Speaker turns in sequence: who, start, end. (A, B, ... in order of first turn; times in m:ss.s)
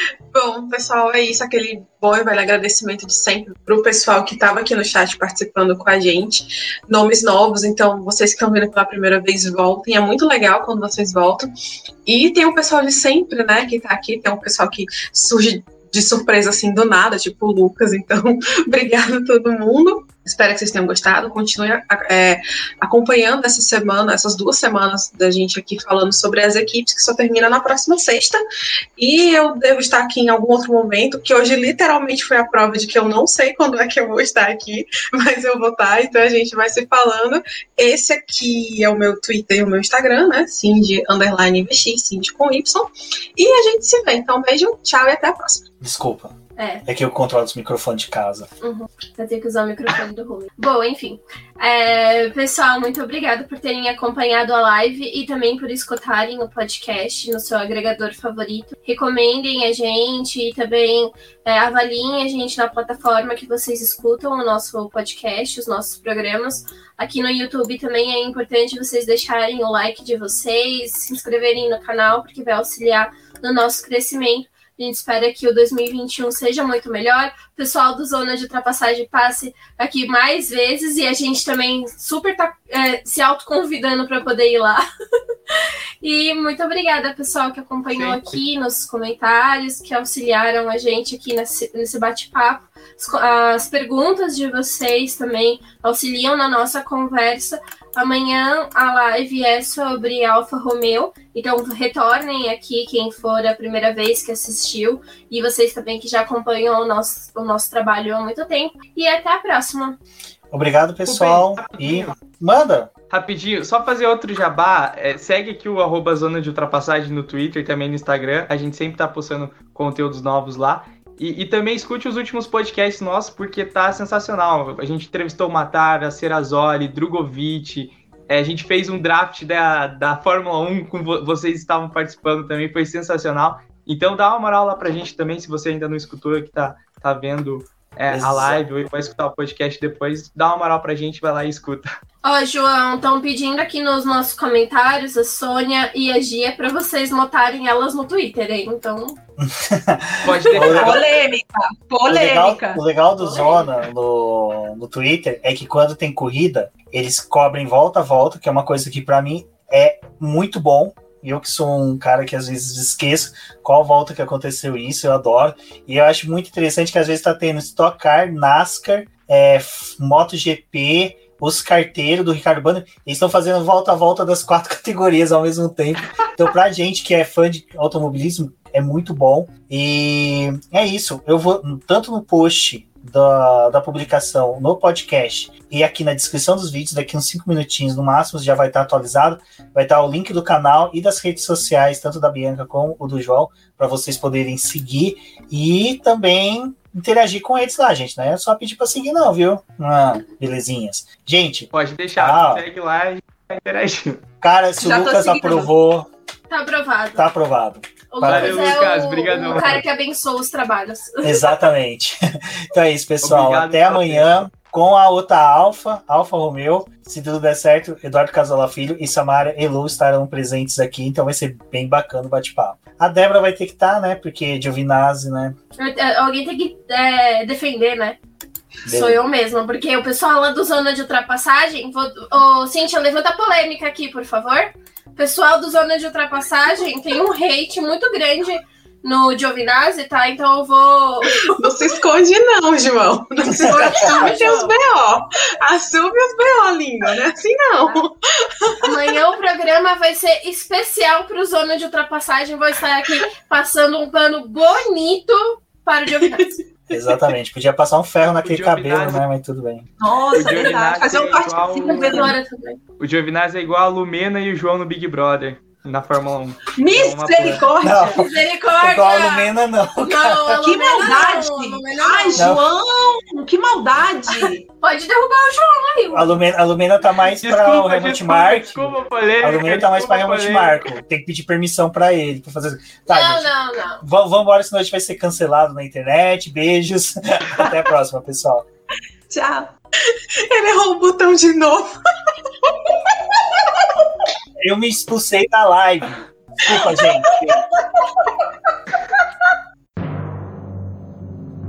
0:00.3-0:11.5 A
0:12.0-0:28.4 A
0:29.0-0:45.6 A
0:45.8-0:46.3 B
0:46.6-0:46.8 C
0:46.8-0:48.5 B
0:48.6-1:24.8 C
1:26.0-1:50.0 C
1:27.9-1:28.4 D
1:50.5-1:52.9 B
1:51.0-1:52.1 D
1:53.1-2:21.9 D
2:18.1-2:18.6 B
2:22.2-2:29.2 C
2:29.4-2:31.0 B
2:30.2-2:31.0 D
2:30.6-2:32.8 E
2:32.1-3:22.6 B
2:33.3-2:33.5 C
3:21.7-3:24.2 D
3:24.4-3:26.1 B
3:24.8-3:25.7 E
3:26.5-3:27.2 C
3:27.1-3:28.9 B
3:28.1-3:31.4 C
3:28.2-3:29.7 D
3:29.5-3:29.8 B
3:31.2-3:32.2 B
3:32.7-3:45.5 B
3:33.2-3:34.4 D
3:45.8-3:48.2 C
3:48.8-3:49.2 B
3:48.9-4:01.5 C
4:01.4-4:08.8 A
4:03.6-4:04.8 C
4:03.8-4:04.2 B
4:08.8-4:16.5 C
4:16.9-4:19.9 B
4:18.4-4:19.2 D
4:20.0-4:22.4 E
4:20.3-4:22.3 D
4:21.9-4:22.8 C
4:23.0-4:27.6 D
4:26.8-4:28.2 E
4:27.8-4:28.2 B
4:28.0-4:32.5 C
4:28.8-4:30.6 B
4:30.6-4:34.6 E
4:32.4-4:32.6 B
4:34.3-4:36.4 C
4:36.1-4:43.5 B
4:37.4-4:40.9 D
4:43.1-4:44.0 C
4:44.0-4:48.6 B
4:49.3-4:49.7 E
4:50.1-4:52.0 A
4:52.6-4:53.7 A
4:54.6-4:57.3 B